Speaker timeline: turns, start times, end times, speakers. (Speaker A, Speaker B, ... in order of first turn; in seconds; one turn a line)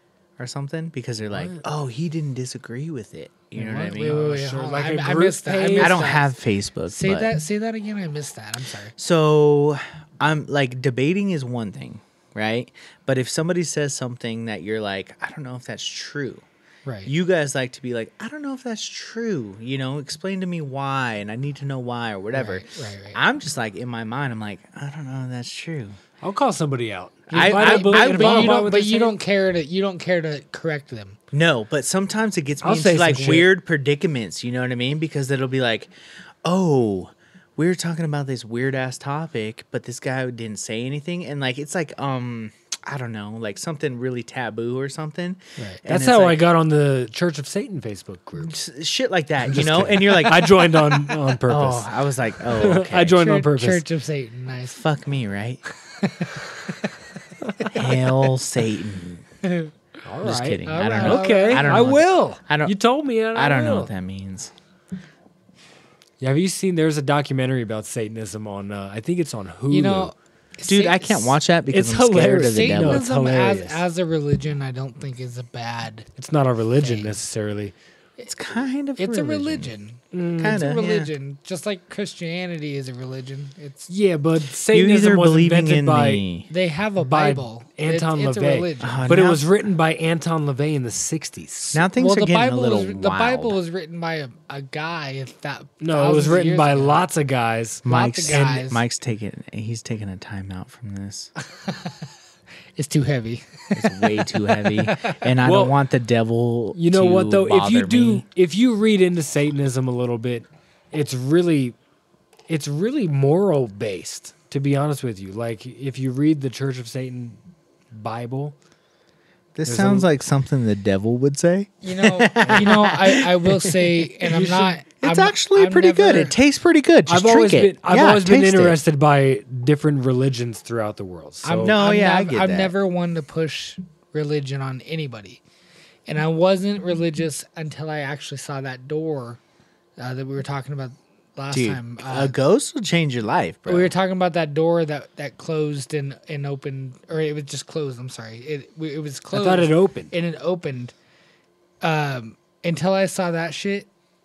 Speaker A: 0.4-4.2
Speaker B: 1.3-1.6
Speaker B: 3.5-6.1
Speaker C: 3.9-6.3
Speaker A: 5.8-7.3
Speaker C: 6.9-8.9
Speaker A: 9.0-16.4
Speaker C: 16.9-17.1
Speaker A: 17.1-26.0
Speaker C: 22.3-23.2
Speaker B: 26.2-29.2
Speaker C: 27.3-31.2
Speaker A: 27.3-28.6
Speaker A: 31.3-35.9
Speaker B: 32.6-33.5
Speaker A: 36.4-46.4
Speaker B: 45.9-48.6
Speaker A: 48.4-50.6
Speaker B: 49.5-51.9
Speaker A: 51.4-53.2
Speaker B: 52.5-53.9
Speaker C: 53.2-54.8
Speaker A: 54.8-55.6
Speaker C: 55.9-57.0
Speaker C: 57.6-57.9
Speaker A: 57.7-59.2
Speaker C: 59.4-59.7
Speaker B: 60.0-63.9
Speaker A: 60.2-62.7
Speaker C: 60.6-62.0
Speaker A: 63.3-64.5
Speaker B: 66.2-70.1
Speaker C: 69.7-71.4
Speaker A: 70.7-73.1
Speaker B: 71.7-73.8
Speaker C: 72.4-76.1
Speaker B: 76.2-77.7
Speaker C: 76.8-77.2
Speaker A: 78.3-79.7
Speaker C: 79.0-83.9
Speaker B: 80.1-80.6
Speaker A: 80.4-81.1
Speaker B: 83.9-86.2
Speaker A: 84.7-86.5
Speaker C: 86.5-89.2
Speaker B: 87.0-91.8
Speaker A: 88.8-89.4
Speaker A: 91.7-93.6
Speaker C: 92.0-97.0
Speaker B: 95.8-97.8
Speaker A: 97.8-101.3
Speaker C: 97.8-98.8
Speaker C: 101.6-102.1
Speaker C: 102.8-105.3
Speaker A: 103.7-108.2
Speaker B: 105.4-105.8
Speaker B: 106.7-111.8
Speaker B: 112.5-117.4
Speaker B: 117.9-118.5
Speaker A: 119.6-123.9
Speaker B: 119.7-120.1
Speaker C: 121.8-126.3
Speaker B: 122.4-122.7
Speaker B: 124.2-124.7
Speaker A: 125.0-128.8
Speaker B: 127.1-131.7
Speaker C: 131.4-135.4
Speaker A: 131.7-132.7
Speaker C: 136.1-139.4
Speaker C: 140.0-142.3
Speaker A: 141.5-143.9
Speaker C: 143.7-150.9
Speaker B: 149.3-150.1
Speaker C: 151.8-153.9